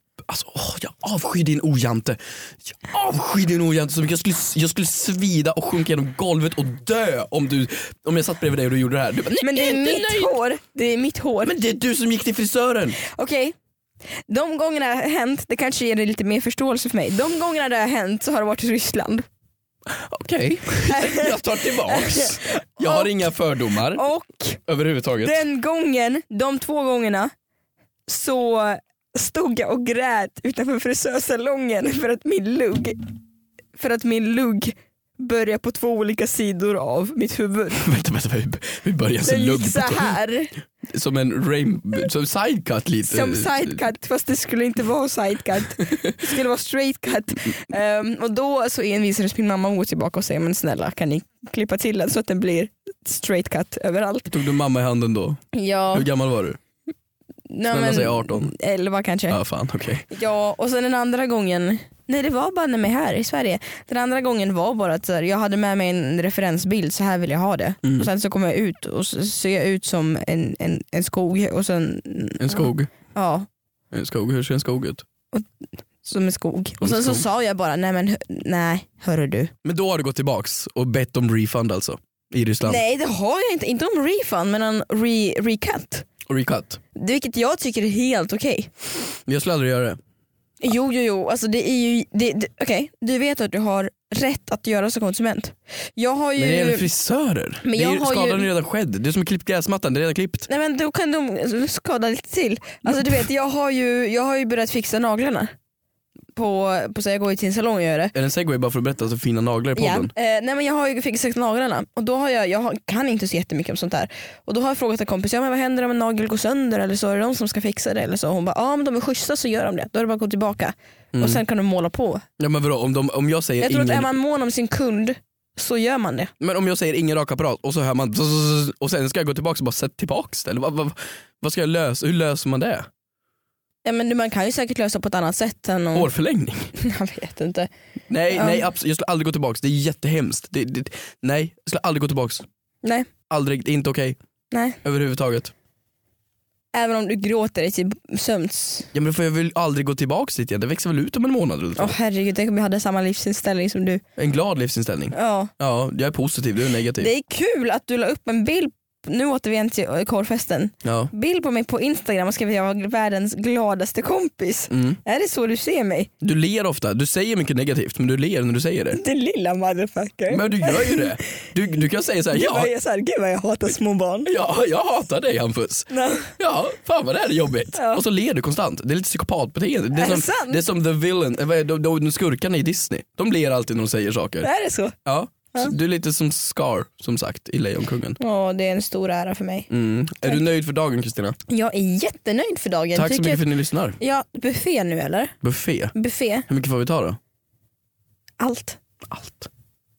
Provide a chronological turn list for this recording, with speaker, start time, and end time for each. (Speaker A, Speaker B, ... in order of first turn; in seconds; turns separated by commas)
Speaker A: 0.2-10.3, Speaker B: 9.3-11.5, Speaker A: 11.4-13.0, Speaker B: 13.0-13.6, Speaker B: 14.3-19.3, Speaker A: 19.9-24.0, Speaker B: 20.9-24.6, Speaker A: 24.7-25.4, Speaker B: 25.2-27.3, Speaker B: 28.1-33.0, Speaker B: 33.8-37.8, Speaker A: 37.8-40.1, Speaker B: 39.2-40.5, Speaker A: 40.9-43.8, Speaker B: 43.0-54.3, Speaker A: 45.8-46.2, Speaker A: 54.3-55.4, Speaker B: 55.5-56.1, Speaker A: 55.9-56.6, Speaker B: 57.5-59.4, Speaker A: 57.7-58.5, Speaker A: 59.3-60.0, Speaker B: 60.1-73.5, Speaker A: 67.8-68.1, Speaker A: 72.4-72.9, Speaker A: 73.9-75.0, Speaker B: 76.0-79.5, Speaker A: 76.8-77.2, Speaker A: 79.6-82.8, Speaker B: 82.6-86.1, Speaker A: 86.3-86.8, Speaker B: 87.0-88.7, Speaker A: 89.3-90.0, Speaker B: 90.6-96.9, Speaker A: 96.4-100.5, Speaker B: 97.6-98.5, Speaker B: 100.5-105.5, Speaker B: 106.3-108.1, Speaker A: 108.1-110.1, Speaker B: 109.8-122.3, Speaker A: 121.1-121.4, Speaker A: 122.4-124.1, Speaker B: 123.6-126.3, Speaker A: 126.4-132.9, Speaker B: 133.8-136.1, Speaker A: 135.9-136.7, Speaker B: 136.8-137.7, Speaker A: 138.1-142.5, Speaker B: 138.3-138.6, Speaker B: 142.8-143.1, Speaker A: 143.3-144.2, Speaker B: 144.5-144.8, Speaker A: 144.8-145.5, Speaker B: 146.7-148.9, Speaker A: 148.9-152.0, Speaker B: 151.8-154.0, Speaker A: 154.2-157.1, Speaker B: 155.1-155.5, Speaker B: 157.0-166.1, Speaker A: 160.8-161.1, Speaker A: 164.7-165.0, Speaker A: 166.2-169.0, Speaker B: 168.9-171.2, Speaker A: 170.3-172.7, Speaker B: 172.3-174.3, Speaker A: 174.3-184.5, Speaker B: 175.9-176.3, Speaker B: 177.8-178.0, Speaker B: 179.9-180.6, Speaker B: 184.4-184.9, Speaker A: 185.1-188.2, Speaker B: 188.2-189.7, Speaker A: 189.7-191.4, Speaker B: 191.5-193.4, Speaker A: 192.9-194.0, Speaker B: 194.0-195.3, Speaker A: 195.4-195.9, Speaker B: 195.9-196.5, Speaker A: 196.5-197.2, Speaker B: 198.4-198.8, Speaker A: 199.1-199.5